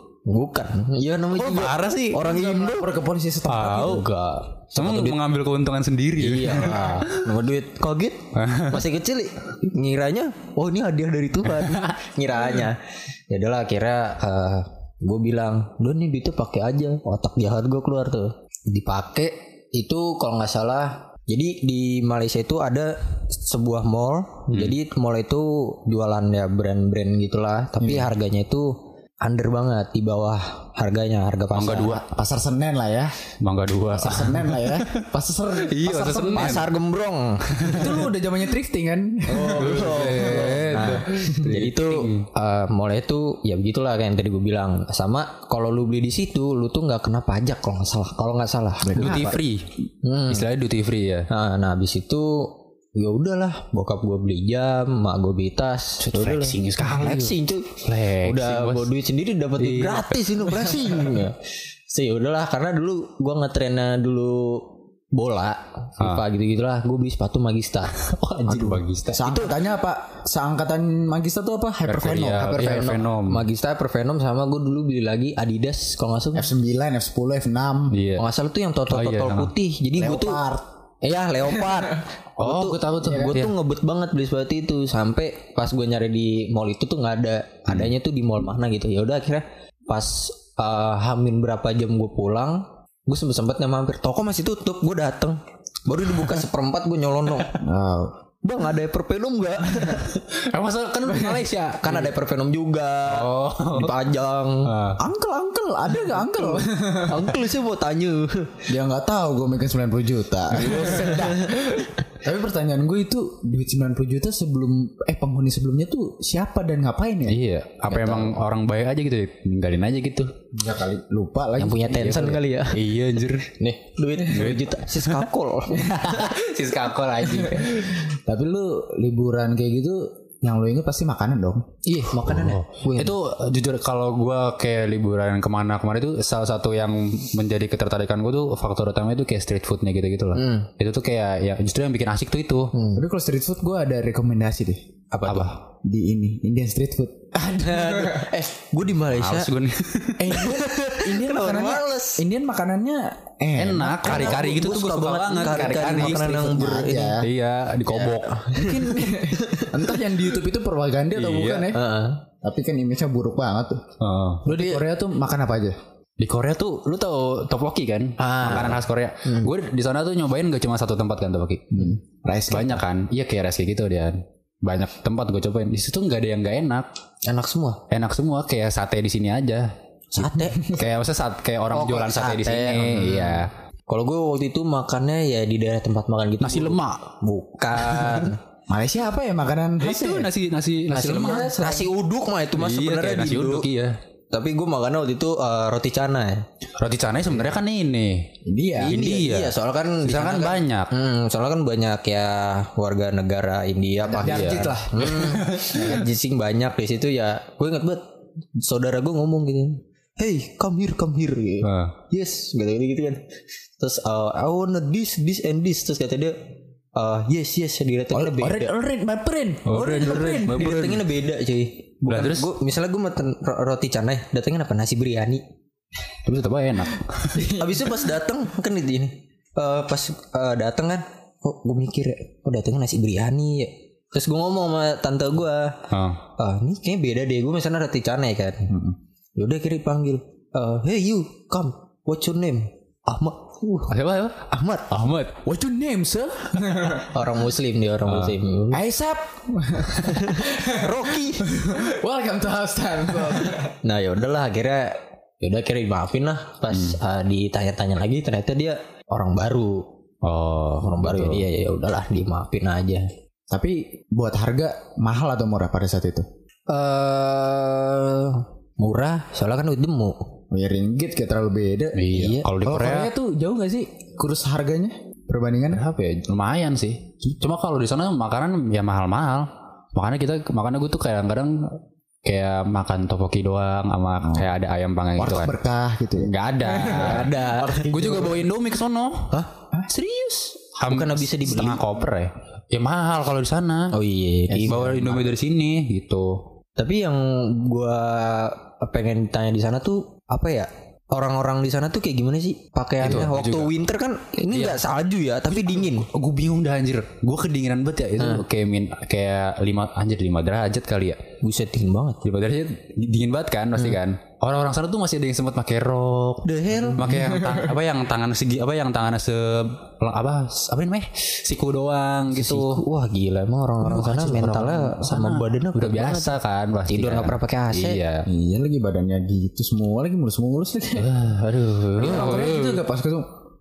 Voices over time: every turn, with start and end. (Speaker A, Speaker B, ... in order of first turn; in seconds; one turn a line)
Speaker A: 0.3-2.9
Speaker B: 1.3-2.3
Speaker C: 2.2-4.0
Speaker B: 3.4-4.1
Speaker A: 3.7-5.2
Speaker B: 4.7-7.3
Speaker A: 6.2-12.8
Speaker B: 8.3-8.8
Speaker B: 11.6-11.9
Speaker A: 13.3-32.0
Speaker B: 27.8-28.1
Speaker B: 31.5-32.0
Speaker C: 32.0-33.2
Speaker B: 33.4-35.0
Speaker C: 33.9-36.6
Speaker B: 35.6-36.7
Speaker A: 36.3-38.0
Speaker B: 37.6-38.0
Speaker C: 37.7-41.4
Speaker A: 39.3-49.3
Speaker B: 39.4-42.3
Speaker C: 48.8-49.4
Speaker B: 48.9-49.7
Speaker A: 50.0-50.5
Speaker B: 50.3-51.3
Speaker A: 51.3-61.4
Speaker B: 56.0-58.9
Speaker B: 59.6-60.1
Speaker A: 61.9-68.0
Speaker B: 68.0-69.3
Speaker C: 68.5-72.6
Speaker A: 69.2-69.6
Speaker B: 71.9-73.5
Speaker A: 72.3-76.5
Speaker C: 76.3-78.0
Speaker B: 77.9-78.2
Speaker A: 78.2-80.4
Speaker B: 78.9-79.5
Speaker C: 80.0-80.7
Speaker A: 81.0-97.6
Speaker C: 81.5-81.8
Speaker B: 82.4-83.5
Speaker C: 83.0-83.4
Speaker C: 97.5-98.1
Speaker A: 98.4-100.2
Speaker B: 100.3-102.1
Speaker A: 101.1-104.7
Speaker B: 103.1-104.1
Speaker B: 104.6-105.0
Speaker C: 105.0-107.3
Speaker A: 106.3-108.7
Speaker C: 108.7-117.4
Speaker A: 110.5-111.9
Speaker B: 110.8-111.2
Speaker B: 117.3-120.3
Speaker A: 117.9-118.4
Speaker C: 120.5-122.2
Speaker A: 121.6-122.8
Speaker B: 121.8-123.5
Speaker A: 123.5-126.1
Speaker B: 124.2-125.3
Speaker B: 125.8-128.0
Speaker C: 125.9-126.3
Speaker C: 127.2-131.7
Speaker A: 131.8-133.2
Speaker B: 132.2-142.7
Speaker A: 140.3-140.7
Speaker A: 142.7-143.0
Speaker C: 142.9-144.8
Speaker A: 145.1-145.5
Speaker B: 145.3-145.6
Speaker C: 145.7-148.3
Speaker A: 147.6-149.5
Speaker B: 149.1-150.4
Speaker C: 150.2-154.6
Speaker A: 150.3-152.2
Speaker B: 153.6-158.4
Speaker A: 154.0-157.2
Speaker C: 155.6-157.3
Speaker A: 157.9-159.9
Speaker C: 158.5-161.9
Speaker B: 161.2-161.7
Speaker A: 161.7-162.2
Speaker C: 162.4-163.8
Speaker B: 164.0-164.5
Speaker C: 164.4-165.8
Speaker A: 164.5-164.8
Speaker B: 166.2-172.0
Speaker A: 168.2-169.5
Speaker C: 172.0-172.8
Speaker B: 172.5-176.9
Speaker A: 177.2-177.8
Speaker B: 177.9-179.7
Speaker A: 180.1-180.8
Speaker C: 180.3-180.9
Speaker B: 180.7-183.5
Speaker A: 181.7-186.8
Speaker B: 186.4-187.2
Speaker A: 187.3-188.4
Speaker B: 187.7-188.3
Speaker C: 188.7-190.3
Speaker B: 189.8-191.9
Speaker A: 190.9-193.7
Speaker B: 192.6-194.0
Speaker A: 194.3-196.5
Speaker B: 196.8-200.9
Speaker C: 198.4-199.1
Speaker A: 198.8-208.0
Speaker C: 204.0-206.0
Speaker B: 204.2-205.9
Speaker A: 208.6-213.2
Speaker B: 211.6-211.9
Speaker A: 213.8-216.3
Speaker A: 216.9-218.7
Speaker C: 218.1-220.8
Speaker B: 219.7-221.1
Speaker A: 219.7-225.4
Speaker B: 222.1-222.5
Speaker B: 226.2-227.5
Speaker C: 227.3-227.9
Speaker A: 227.5-235.8
Speaker B: 235.9-236.2
Speaker A: 236.4-238.7
Speaker C: 238.7-239.0
Speaker A: 239.4-245.1
Speaker B: 243.9-245.4
Speaker C: 245.4-247.2
Speaker A: 247.0-248.8
Speaker B: 248.1-248.4
Speaker C: 248.7-253.7
Speaker A: 249.9-251.5
Speaker A: 253.8-259.9
Speaker B: 256.7-257.0
Speaker B: 260.2-261.4
Speaker A: 260.8-263.1
Speaker C: 263.5-266.2
Speaker A: 266.7-270.2
Speaker C: 270.5-272.1
Speaker B: 271.9-273.1
Speaker A: 272.1-272.5
Speaker C: 272.6-275.8
Speaker B: 275.7-285.5
Speaker C: 285.2-288.2
Speaker B: 286.2-289.3
Speaker A: 286.6-288.4
Speaker B: 289.9-293.9
Speaker A: 290.8-291.8
Speaker A: 293.9-295.3
Speaker B: 294.5-296.4
Speaker A: 296.8-306.1
Speaker B: 303.0-303.7
Speaker B: 304.5-304.8
Speaker B: 305.6-311.2
Speaker A: 308.2-308.4
Speaker A: 311.4-312.2
Speaker B: 312.2-322.8
Speaker A: 316.4-317.1
Speaker C: 317.1-317.7
Speaker A: 322.3-328.0
Speaker B: 323.9-328.3
Speaker C: 328.2-331.1
Speaker B: 330.9-332.8
Speaker C: 331.9-333.3